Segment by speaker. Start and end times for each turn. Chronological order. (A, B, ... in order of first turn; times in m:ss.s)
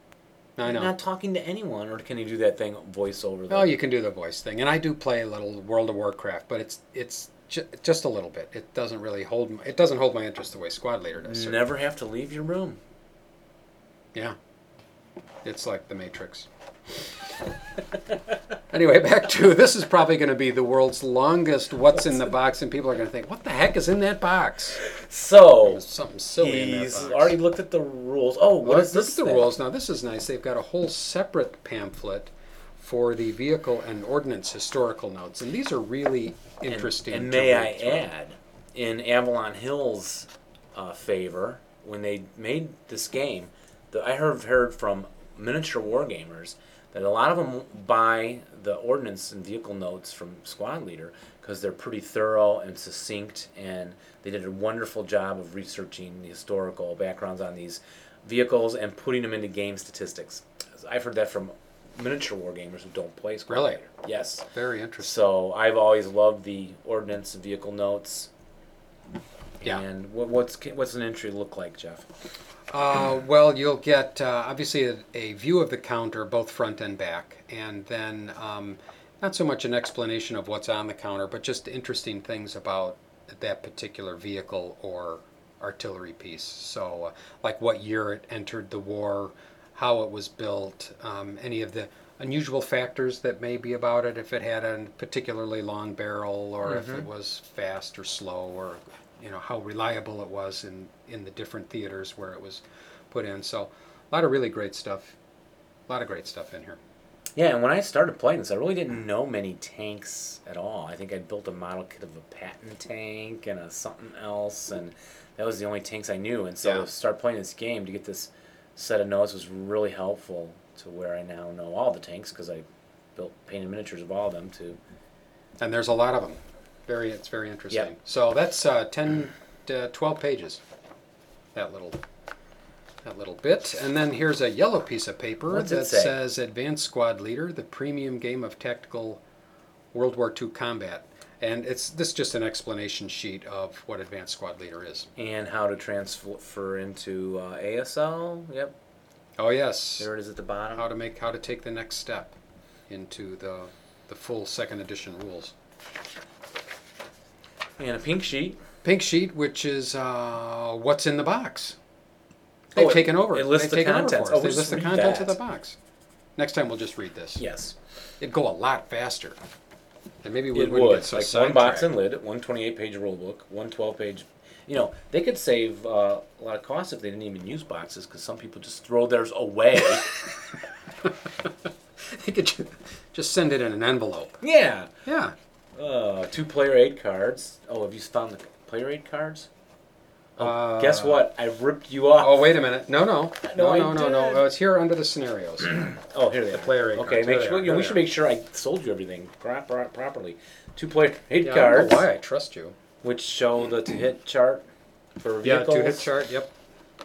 0:00.6-0:00.9 A
0:00.6-0:03.7 B
0:03.5-0:11.6 A
0:11.2-0:12.8 B
0:15.4-0:16.5 A
0:18.7-0:24.8 A
0:24.8-0:25.8 B
0:25.6-0:27.4 A
0:26.4-0:29.5 B
0:28.6-0:38.1 A
0:36.7-1:04.4 B
1:03.5-1:03.8 A
1:04.5-1:05.2 A
1:05.0-1:08.3 B
1:09.6-1:12.1 B
1:12.7-1:45.2 A
1:36.6-1:37.0 B
1:45.9-1:46.8 A
1:47.4-2:04.8 B
2:05.6-2:10.6 A
2:11.5-2:12.0 A
2:13.0-2:19.2 A
2:15.5-2:16.2 B
2:19.9-2:25.1 A
2:25.2-2:28.7 B
2:29.4-2:30.1 A
2:30.0-2:30.9 B
2:30.7-2:32.3 A
2:32.9-2:35.5 A
2:37.8-2:38.6 B
2:38.8-2:41.8 A
2:42.7-2:45.4 B
2:42.7-2:45.8 A
2:46.4-2:47.4 A
2:47.4-2:47.8 B
2:48.2-2:49.4 A
2:50.2-2:51.9 A
2:50.5-3:00.1 B
3:01.0-3:04.4 A
3:04.4-3:04.9 B
3:05.0-3:05.3 A
3:05.8-3:09.5 B
3:10.4-3:12.5 B
3:10.4-3:11.2 A
3:12.2-3:15.9 A
3:13.4-3:14.5 B
3:15.7-3:22.1 B
3:16.5-3:18.0 A
3:21.4-3:22.8 A
3:23.0-3:24.6 B
3:25.2-3:26.1 B
3:25.4-3:26.5 A